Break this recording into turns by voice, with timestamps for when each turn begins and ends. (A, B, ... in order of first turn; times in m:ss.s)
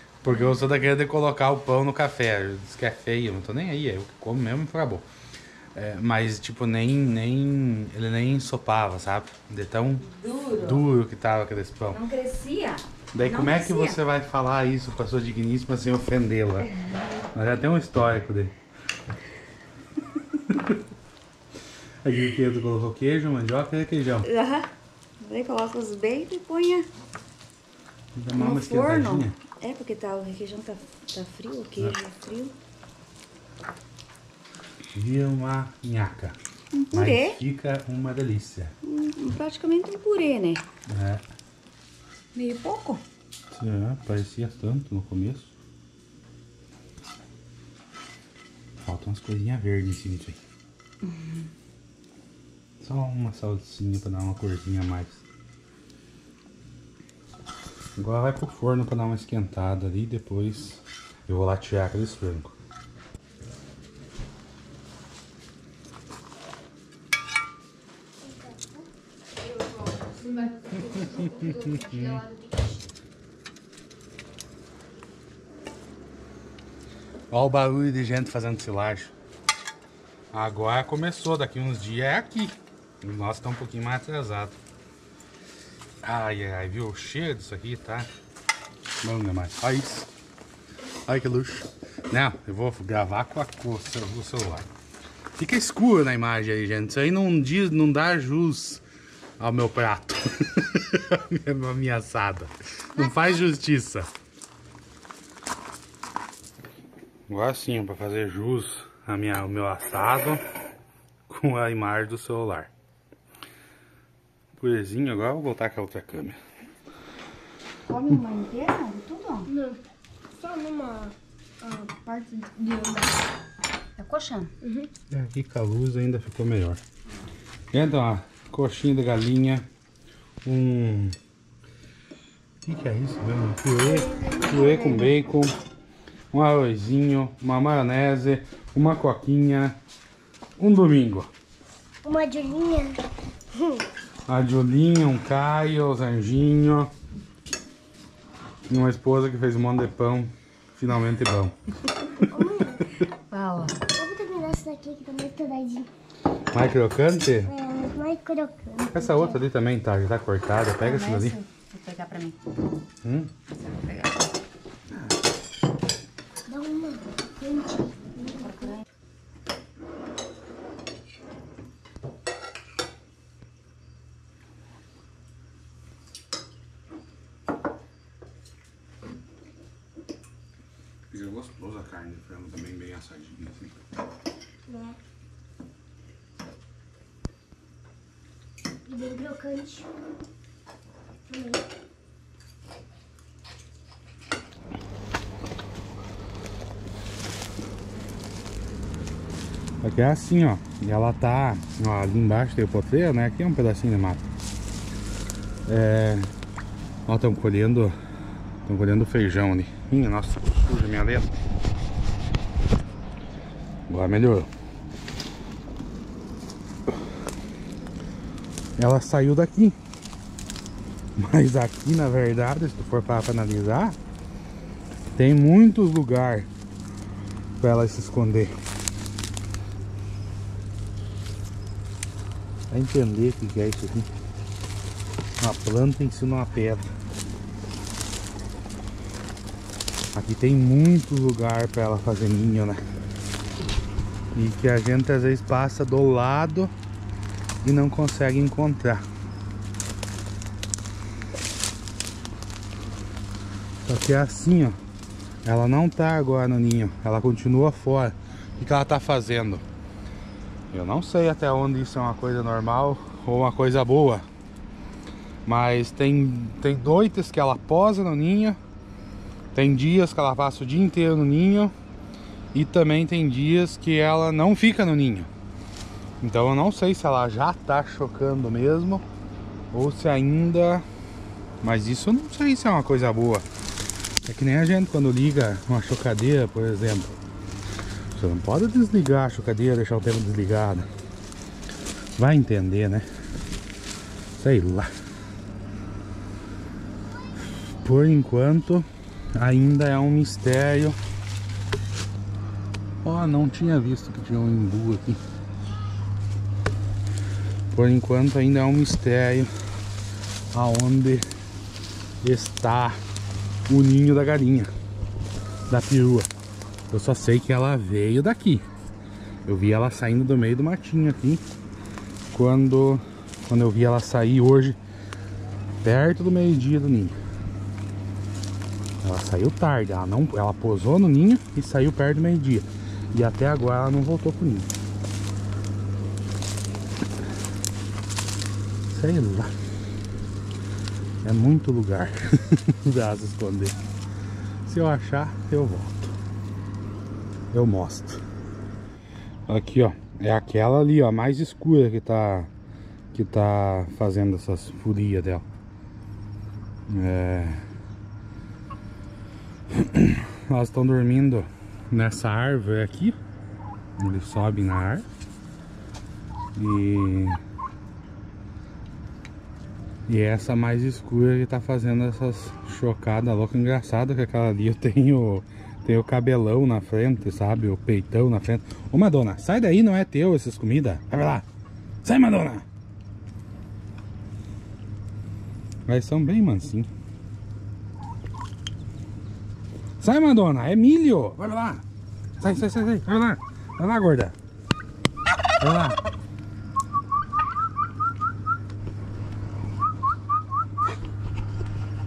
0:00.2-0:05.1 A
0:05.8-0:12.0 A
0:10.0-0:10.9 B
0:11.9-0:14.0 B
0:13.1-0:16.7 A
0:16.7-0:17.2 B
0:17.3-0:18.5 A
0:20.3-0:20.8 A
0:22.0-0:24.3 A
0:24.2-0:26.9 B
0:28.2-0:29.4 A
0:28.3-0:32.6 B
0:34.9-0:36.4 A
0:36.7-0:37.4 B
0:36.9-0:38.7 A
0:38.8-0:40.6 B
0:40.9-0:41.2 A
0:42.4-0:43.0 B
0:43.5-0:45.5 A
0:48.8-0:50.4 A
0:51.0-0:51.5 B
0:52.8-0:55.2 A
0:58.0-1:02.5 A
1:08.2-1:08.9 C
1:09.4-1:12.8 B
1:11.0-1:12.2 A
1:17.3-1:19.1 A
1:20.3-1:24.6 A
1:26.0-1:28.1 A
1:29.0-1:30.1 A
1:31.1-1:34.7 A
1:35.4-1:38.8 A
1:39.4-1:44.1 A
1:43.0-1:43.4 B
1:47.3-1:50.4 A
1:51.3-1:52.7 A
1:54.6-1:56.4 A
1:57.9-1:59.5 B
1:59.5-1:59.8 C
2:00.4-2:03.1 C
2:04.0-2:04.5 B
2:04.6-2:04.9 C
2:05.1-2:06.8 A
2:07.7-2:09.7 A
2:10.4-2:11.2 A
2:12.6-2:15.6 A
2:13.9-2:15.1 C
2:16.3-2:19.8 A
2:20.6-2:21.3 A
2:22.0-2:23.0 C
2:23.5-2:23.8 C
2:24.3-2:26.9 A
2:28.7-2:32.2 A
2:32.3-2:32.9 C
2:33.3-2:33.8 B
2:33.9-2:35.9 C
2:36.5-2:37.5 A
2:37.5-2:39.4 C
2:38.9-2:41.4 A
2:40.8-2:42.4 B
2:43.0-2:43.3 A
2:43.5-2:44.3 B
2:46.5-2:48.7 C
2:48.2-2:48.8 B
3:01.1-3:03.8 A
3:04.7-3:05.0 C
3:08.9-3:09.9 C
3:11.3-3:11.7 C
3:19.8-3:24.2 A
3:25.7-3:26.3 A
3:27.1-3:27.9 A
3:28.6-3:31.4 A
3:33.9-3:34.5 A
3:38.8-3:39.8 A
3:41.2-3:44.0 A
3:45.2-3:46.5 A
3:47.6-3:48.5 A
3:52.7-3:54.1 A
3:55.4-3:56.9 A
4:00.1-4:02.8 A
4:04.3-4:06.7 A
4:07.6-4:09.0 A
4:13.8-4:14.8 A
4:15.4-4:19.6 A
4:20.7-4:24.3 A
4:25.5-4:28.6 A
4:29.5-4:31.7 A
4:32.5-4:35.3 A
4:36.2-4:39.0 A
4:39.7-4:40.8 A
4:41.6-4:43.4 A
4:44.3-4:47.2 A
4:48.1-4:50.9 A
4:52.2-4:53.1 A
4:54.4-4:54.9 A
4:57.8-5:01.0 A
5:03.0-5:05.2 A
5:07.7-5:09.5 A
5:10.5-5:11.3 A
5:12.2-5:13.0 A
5:13.7-5:14.7 A
5:15.7-5:16.3 A
5:16.9-5:18.6 A
5:19.5-5:21.4 A
5:22.3-5:24.8 A
5:25.8-5:27.2 A
5:29.0-5:34.7 A
5:38.9-5:39.5 A
5:41.2-5:43.8 A
5:44.6-5:46.2 A
5:47.5-5:48.2 A
5:49.5-5:52.5 A
5:53.1-5:55.5 A
5:56.9-5:57.6 A
5:59.7-6:03.2 A
6:04.0-6:05.0 A
6:06.6-6:07.4 A
6:10.1-6:21.5 A
6:22.0-6:22.6 A
6:25.9-6:26.9 A
6:30.0-6:31.8 A
6:32.4-6:34.3 A
6:35.6-6:36.0 A